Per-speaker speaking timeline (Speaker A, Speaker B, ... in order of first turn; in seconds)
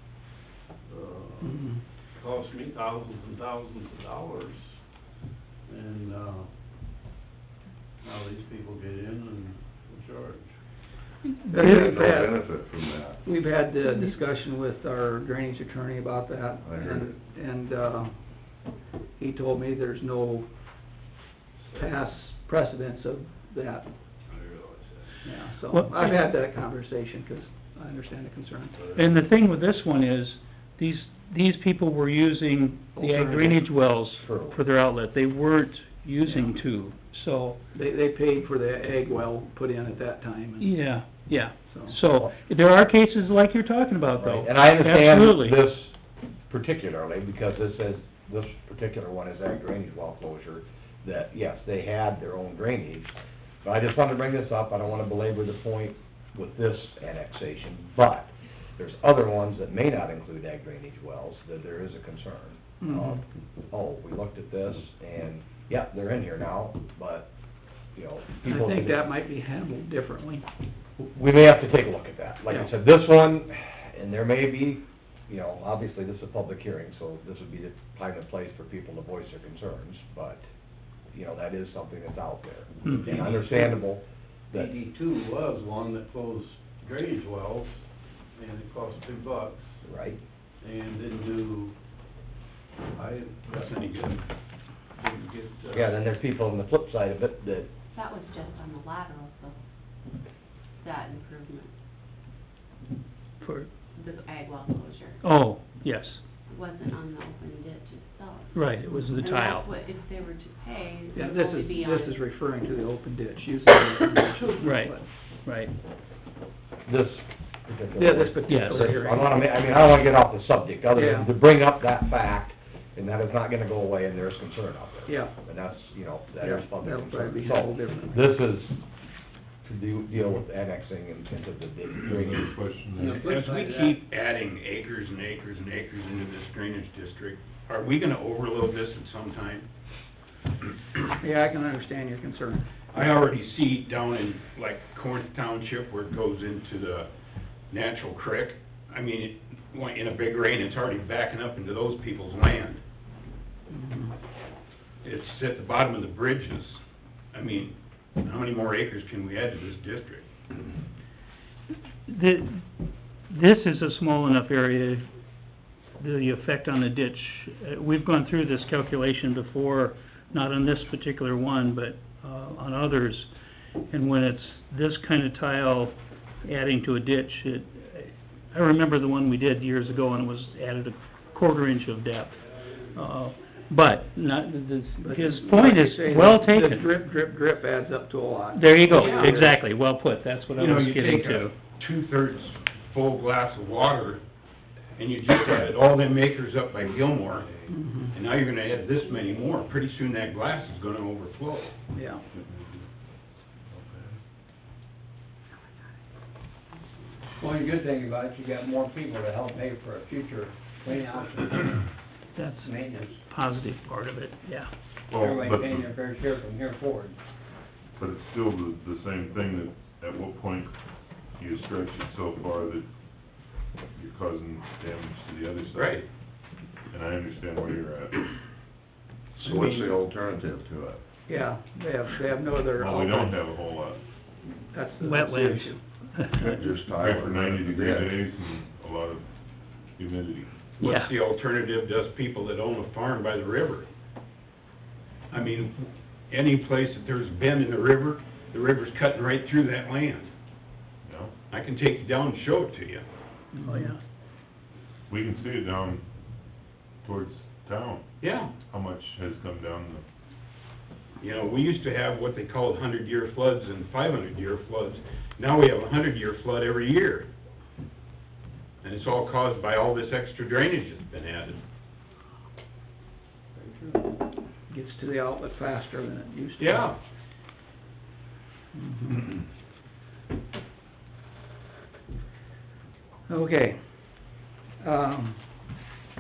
Speaker A: 0.8-4.8, 5.7-6.5, 8.0-10.6, 21.7-21.9, 24.3-25.2, 28.8-29.2, 83.0-83.4, 84.5-87.8, 88.3-89.8, 90.6-91.7, 92.9-94.2, 94.9-96.0, 197.3-197.7, 202.3-202.8, 203.7-204.1
Speaker B: 1.4-1.8, 11.5-12.4, 13.2-18.1, 19.2-20.5, 21.7-23.9, 25.2-28.8, 33.0-33.6, 36.2-36.5, 37.7-40.9, 41.7-42.0, 62.8-63.2, 68.4-70.4, 111.1-115.0, 118.0-119.8, 120.9-121.3, 125.1-125.3, 126.4-128.4, 141.2-142.7, 153.7-154.1, 185.0-189.6, 197.7-198.1, 201.9-202.2, 231.3-233.4, 234.7-235.8, 253.6-253.9, 274.7-276.9, 278.7-279.3, 283.3-285.4
Speaker C: 11.6-13.2, 16.6-17.1, 229.4-231.0, 236.4-238.2
Speaker D: 25.7-26.2, 28.9-37.6, 40.6-45.6, 82.8-83.1, 103.4-103.7, 105.2-106.2, 108.5-109.7, 114.6-115.7, 118.5-118.9, 162.1-162.6, 163.3-165.1, 166.0-173.3, 173.9-186.9, 188.5-191.5, 212.3-214.7, 235.0-236.7, 240.8-241.1, 253.6-254.0
Speaker E: 34.1-34.6, 44.2-45.9, 46.5-53.1, 53.6-67.3, 67.9-69.0, 71.0-80.4, 81.1-84.7, 89.8-90.2, 95.7-97.7, 116.8-128.8, 129.6-132.5
Speaker F: 93.5-94.2, 133.2-139.7, 142.9-147.1, 147.7-152.8, 155.0-156.8, 157.3-160.3, 188.9-189.5, 190.6-194.2, 194.9-197.5, 198.1-201.7, 225.7-226.1, 240.8-243.9, 245.3-250.3, 251.5-253.0, 258.2-258.5, 261.2-267.3, 268.8-271.6, 276.6-276.9
Speaker G: 97.9-99.6, 100.8-101.7, 103.9-105.2, 106.5-112.2, 199.0-199.6
Speaker H: 132.0-133.3, 215.1-215.9, 218.0-226.1, 226.9-228.3, 232.7-234.0, 236.9-239.3, 239.9-240.5, 251.0-251.3, 255.1-256.0, 257.0-258.0, 258.6-260.0
Speaker I: 132.9-133.9, 207.4-211.9, 212.6-213.2, 215.1-217.2